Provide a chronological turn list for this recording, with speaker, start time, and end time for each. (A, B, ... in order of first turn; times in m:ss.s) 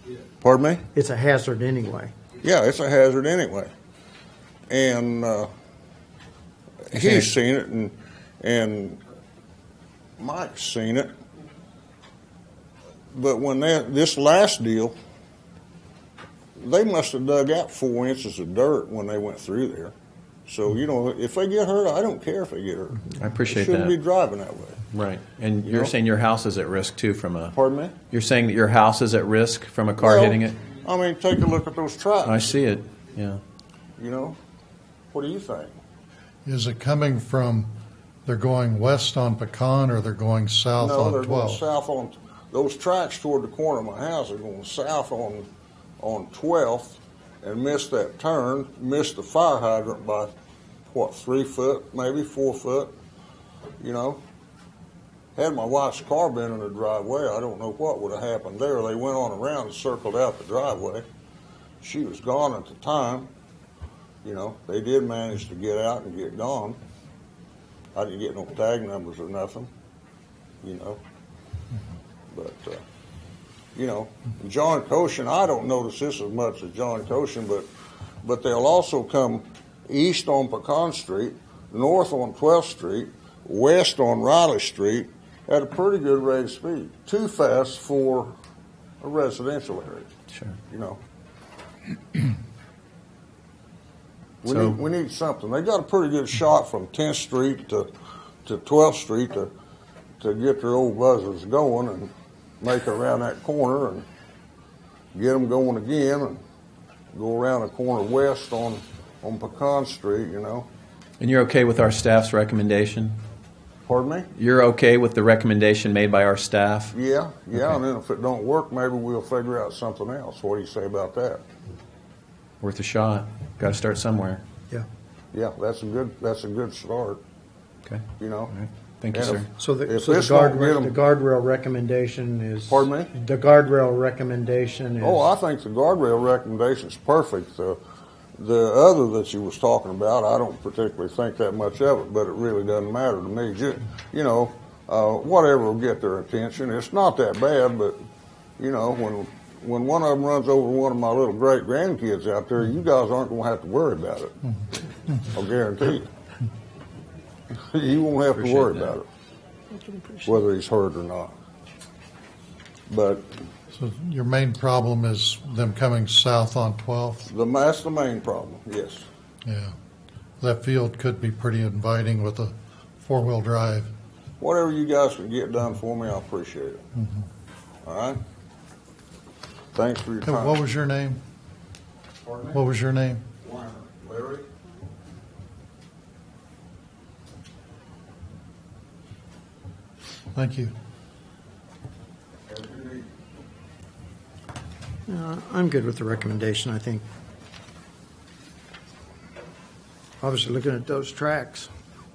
0:00.4-0:00.8 A
0:00.9-0:02.1 B
0:02.4-0:03.7 A
0:04.7-0:05.5 A
0:06.9-0:09.0 A
0:07.0-0:07.2 C
0:10.2-0:11.1 A
0:13.1-0:14.9 A
0:16.6-0:19.9 A
0:20.5-0:24.8 A
0:23.2-0:24.0 C
0:24.9-0:27.6 C
0:27.5-0:28.0 A
0:28.1-0:30.6 C
0:30.0-0:32.4 A
0:32.2-0:33.4 C
0:34.0-0:34.4 A
0:35.1-0:35.8 A
0:36.4-0:37.7 D
0:38.2-0:41.6 D
0:40.8-0:45.5 A
0:46.0-0:50.3 A
0:50.9-0:52.9 A
0:53.8-0:54.2 A
0:55.4-1:01.0 A
1:01.8-1:03.3 A
1:04.2-1:06.8 A
1:07.9-1:09.7 A
1:10.6-1:11.0 A
1:12.3-1:12.8 A
1:13.8-1:17.7 A
1:18.2-1:28.3 A
1:29.0-1:30.1 A
1:30.3-1:30.6 C
1:30.7-1:31.0 A
1:34.4-1:37.9 A
1:34.4-1:34.8 C
1:38.4-1:39.5 A
1:40.2-1:44.0 A
1:45.1-1:46.4 A
1:47.1-1:50.7 A
1:51.2-1:53.2 C
1:53.8-1:54.3 A
1:54.3-1:56.9 C
1:56.9-2:01.4 A
2:02.6-2:04.4 C
2:05.3-2:07.2 A
2:07.8-2:09.5 C
2:08.2-2:08.5 A
2:09.1-2:11.0 A
2:09.6-2:15.2 B
2:12.7-2:13.1 A
2:15.0-2:17.8 A
2:18.4-2:28.0 A
2:28.6-2:34.4 A
2:35.3-2:36.1 A
2:37.5-2:39.1 A
2:38.3-2:39.0 C
2:40.2-2:41.3 A
2:42.9-2:43.2 A
2:43.7-2:47.3 D
2:47.3-2:49.0 A
2:49.4-2:49.7 D
2:50.4-2:53.9 D
2:54.4-2:56.8 A
2:57.0-2:57.2 D
2:57.8-2:58.2 A
2:59.7-3:00.6 A
3:00.2-3:01.2 D
3:02.2-3:02.6 A
3:02.5-3:03.2 D
3:03.4-3:04.4 A
3:10.3-3:10.7 D
3:12.5-3:13.1 A
3:15.1-3:17.0 B
3:20.2-3:21.7 B